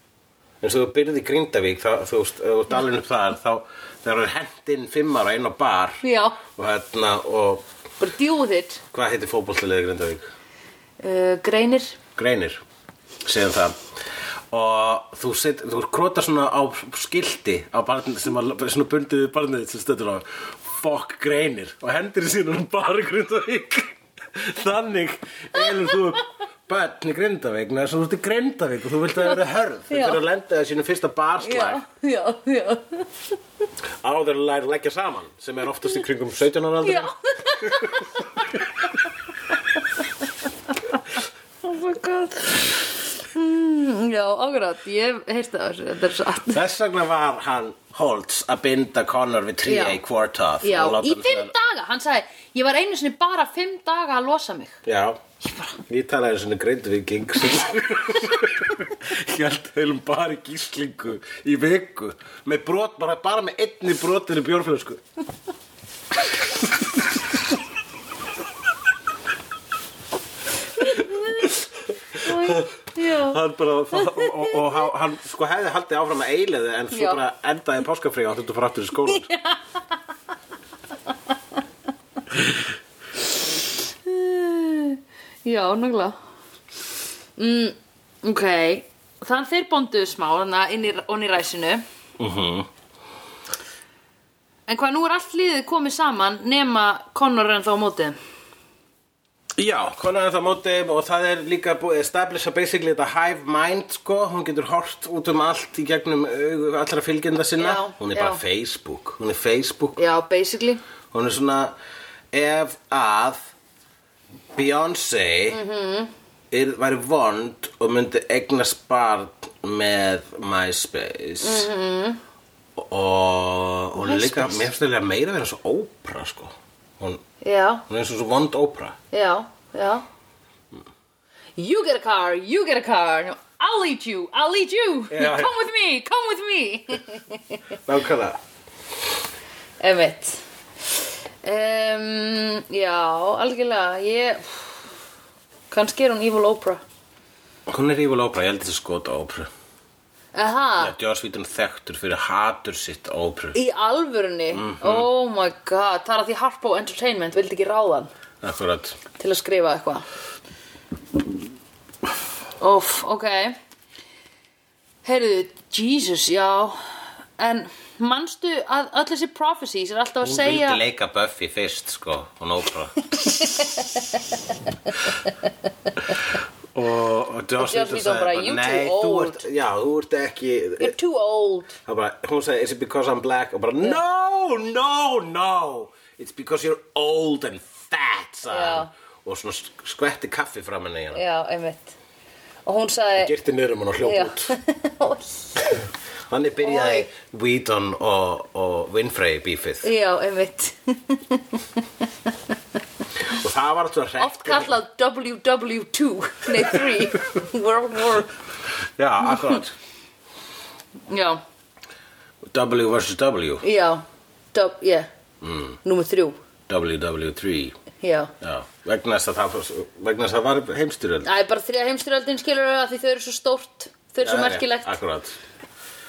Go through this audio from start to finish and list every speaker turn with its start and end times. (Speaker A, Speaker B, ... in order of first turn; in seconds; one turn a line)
Speaker A: 0.6-7.6
Speaker B: 6.0-6.4
Speaker B: 8.0-8.8
Speaker A: 8.9-10.3
Speaker B: 11.0-12.0
Speaker A: 12.2-12.6
Speaker A: 13.2-13.8
Speaker A: 14.5-31.8
Speaker B: 29.9-30.2
Speaker B: 31.4-33.1
Speaker A: 34.0-37.1
Speaker B: 36.8-38.2
Speaker A: 37.6-38.0
Speaker B: 41.6-46.6
Speaker A: 46.5-51.5
Speaker B: 49.6-50.0
Speaker B: 50.6-54.8
Speaker A: 54.9-55.2
Speaker A: 55.8-65.0
Speaker A: 66.3-67.0
Speaker B: 70.8-71.5
Speaker B: 72.2-73.4
Speaker A: 72.2-79.3
Speaker B: 73.9-74.5
Speaker B: 76.9-77.2
Speaker B: 79.1-79.6
Speaker B: 84.0-86.2
Speaker B: 87.4-91.8
Speaker A: 92.2-92.7
Speaker B: 94.7-98.2
Speaker A: 99.6-110.0
Speaker B: 107.6-108.4
Speaker B: 110.0-110.8
Speaker A: 111.1-111.7
Speaker A: 112.3-113.4
Speaker A: 114.5-115.6
Speaker B: 115.5-116.1
Speaker A: 116.5-121.7
Speaker B: 121.4-122.2
Speaker A: 122.8-127.2
Speaker B: 124.0-124.7
Speaker B: 127.4-127.8
Speaker A: 127.9-129.0
Speaker B: 129.1-130.0
Speaker B: 131.6-137.6
Speaker A: 135.1-135.6
Speaker A: 137.8-138.4
Speaker B: 139.8-140.4
Speaker B: 141.4-144.8
Speaker B: 145.7-146.8
Speaker A: 147.7-149.5
Speaker B: 150.3-150.9
Speaker A: 150.8-153.6
Speaker B: 153.5-158.1
Speaker A: 154.5-155.1
Speaker A: 158.4-159.0
Speaker B: 159.2-160.1
Speaker B: 162.6-163.6
Speaker B: 165.0-170.8
Speaker A: 170.2-173.0
Speaker B: 173.2-173.8
Speaker A: 176.7-180.9
Speaker B: 177.6-179.4
Speaker B: 180.8-181.8
Speaker A: 181.9-191.2
Speaker B: 188.5-188.9
Speaker B: 191.1-191.9
Speaker B: 192.7-193.3
Speaker A: 193.2-194.5
Speaker B: 194.0-195.8
Speaker A: 196.3-199.9
Speaker B: 196.6-197.1
Speaker B: 199.8-201.6
Speaker A: 203.3-204.7
Speaker B: 204.2-208.3
Speaker A: 209.0-209.7
Speaker B: 211.1-211.4
Speaker A: 212.4-213.6
Speaker B: 213.6-215.1
Speaker A: 215.4-215.8
Speaker B: 215.8-216.4
Speaker A: 216.7-217.8
Speaker B: 218.0-218.3
Speaker A: 218.4-221.3
Speaker B: 221.2-225.0
Speaker A: 224.2-225.4